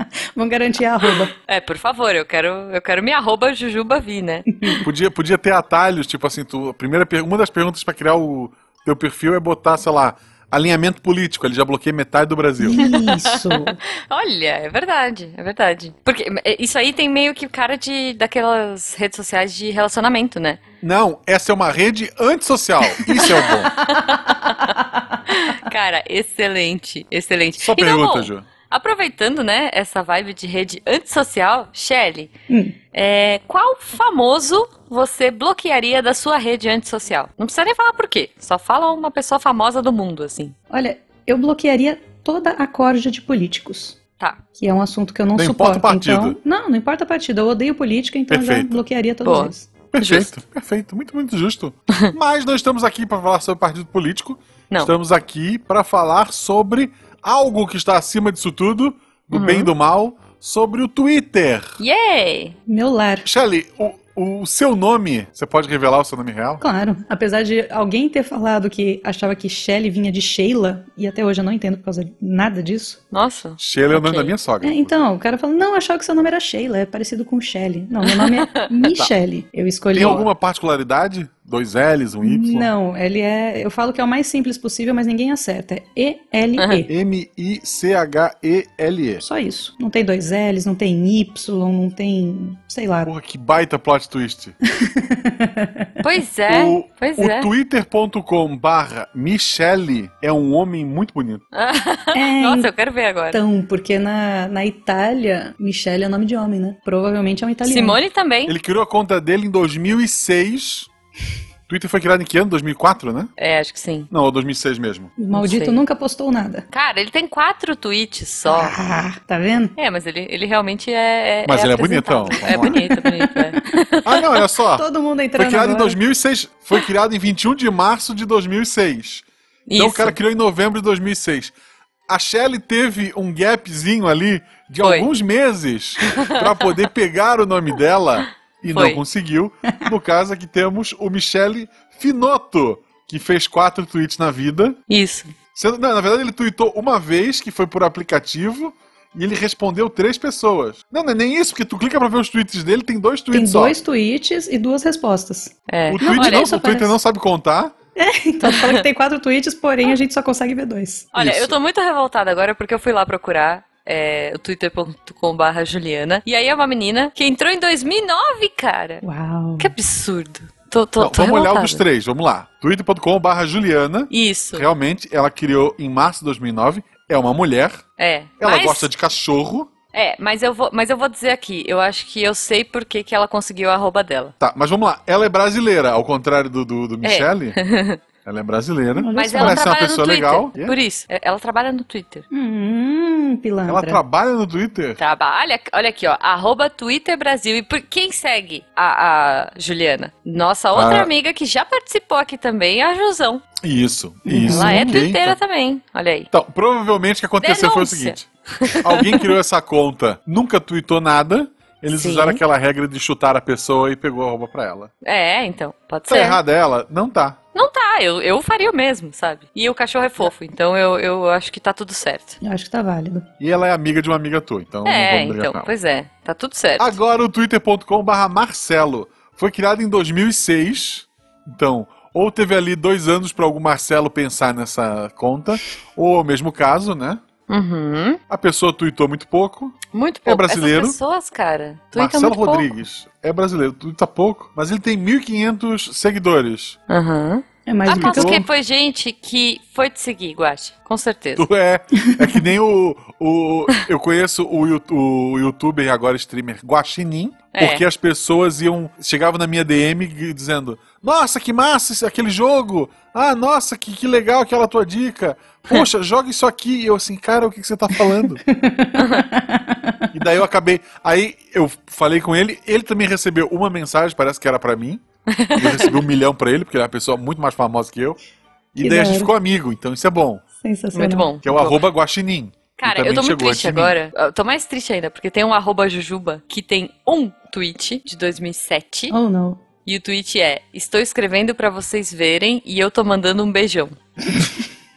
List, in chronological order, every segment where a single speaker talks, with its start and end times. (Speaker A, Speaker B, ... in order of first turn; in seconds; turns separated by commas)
Speaker A: 0.3-1.3, Speaker B: 1.1-4.7, Speaker A: 4.6-4.8, Speaker C: 4.8-12.8, Speaker A: 12.6-13.8, Speaker B: 12.8-20.6, Speaker C: 20.8-23.8, Speaker B: 23.1-32.3, Speaker A: 24.3-25.2, Speaker C: 27.6-28.5, Speaker A: 32.5-32.8, Speaker B: 32.9-40.5, Speaker A: 40.7-44.0, Speaker A: 44.5-49.7, Speaker C: 45.3-46.4, Speaker C: 48.3-48.8, Speaker B: 49.2-50.3, Speaker C: 49.9-61.8, Speaker B: 59.3-59.7, Speaker B: 61.8-62.5, Speaker A: 62.7-63.3, Speaker C: 63.2-66.6, Speaker A: 66.6-73.0, Speaker B: 73.1-74.3, Speaker C: 73.6-75.0, Speaker A: 74.6-80.2, Speaker B: 78.0-78.7, Speaker C: 79.9-82.7, Speaker B: 80.0-80.3, Speaker A: 82.2-86.9, Speaker C: 86.9-89.2, Speaker A: 89.2-93.1, Speaker C: 93.0-94.5, Speaker A: 94.7-95.9, Speaker B: 96.0-97.5, Speaker C: 96.5-101.4, Speaker B: 101.5-103.4, Speaker A: 102.1-102.7, Speaker A: 103.3-108.0, Speaker B: 107.6-108.5, Speaker C: 108.5-110.9, Speaker C: 111.7-113.3, Speaker B: 113.4-114.1, Speaker C: 114.1-115.1, Speaker A: 115.2-116.7, Speaker B: 115.3-115.8, Speaker B: 116.7-118.8, Speaker A: 118.5-119.7, Speaker B: 119.8-124.4, Speaker C: 121.4-122.8, Speaker A: 122.4-123.6, Speaker C: 124.0-129.2, Speaker A: 124.7-126.0, Speaker B: 129.7-130.2, Speaker C: 129.8-131.5, Speaker C: 132.1-144.8, Speaker B: 134.8-135.1, Speaker B: 136.1-136.5, Speaker B: 138.7-139.0, Speaker B: 144.9-145.3, Speaker C: 145.5-153.8, Speaker A: 153.3-156.9, Speaker B: 155.7-156.5, Speaker C: 155.9-157.7, Speaker A: 157.9-161.1, Speaker B: 158.4-158.8, Speaker B: 161.1-169.0, Speaker C: 161.2-161.5, Speaker A: 169.0-169.7, Speaker B: 169.6-171.8, Speaker C: 171.0-177.8, Speaker B: 174.1-174.7, Speaker B: 178.0-178.9, Speaker C: 178.4-179.7, Speaker B: 179.9-184.3, Speaker C: 184.4-187.6, Speaker B: 187.0-188.0, Speaker C: 188.2-190.8, Speaker A: 188.9-189.7, Speaker B: 189.1-192.2, Speaker A: 192.3-194.0, Speaker C: 193.7-195.0, Speaker B: 195.0-203.4, Speaker C: 200.7-201.1, Speaker C: 203.6-205.4, Speaker A: 204.3-205.0, Speaker B: 204.4-206.3, Speaker C: 206.3-214.9, Speaker B: 207.4-209.3, Speaker B: 211.9-212.4, Speaker B: 215.0-216.4, Speaker C: 216.1-217.4, Speaker B: 217.5-222.4, Speaker A: 222.4-223.2, Speaker C: 223.4-225.7, Speaker B: 224.8-226.9, Speaker C: 226.8-237.2, Speaker B: 237.5-238.2, Speaker C: 238.3-241.0, Speaker B: 239.9-242.7, Speaker C: 241.9-246.8, Speaker B: 246.9-251.5, Speaker A: 247.7-248.5, Speaker C: 247.9-248.5, Speaker C: 251.4-268.4, Speaker B: 257.5-257.8, Speaker A: 268.4-270.1, Speaker B: 269.0-269.2, Speaker C: 270.1-275.0, Speaker B: 275.3-275.9, Speaker C: 275.5-278.2, Speaker C: 278.7-280.4, Speaker A: 278.8-279.3, Speaker A: 280.6-281.3, Speaker B: 280.9-281.8, Speaker C: 281.4-283.9, Speaker B: 282.8-289.1, Speaker A: 289.1-289.6, Speaker B: 289.8-294.0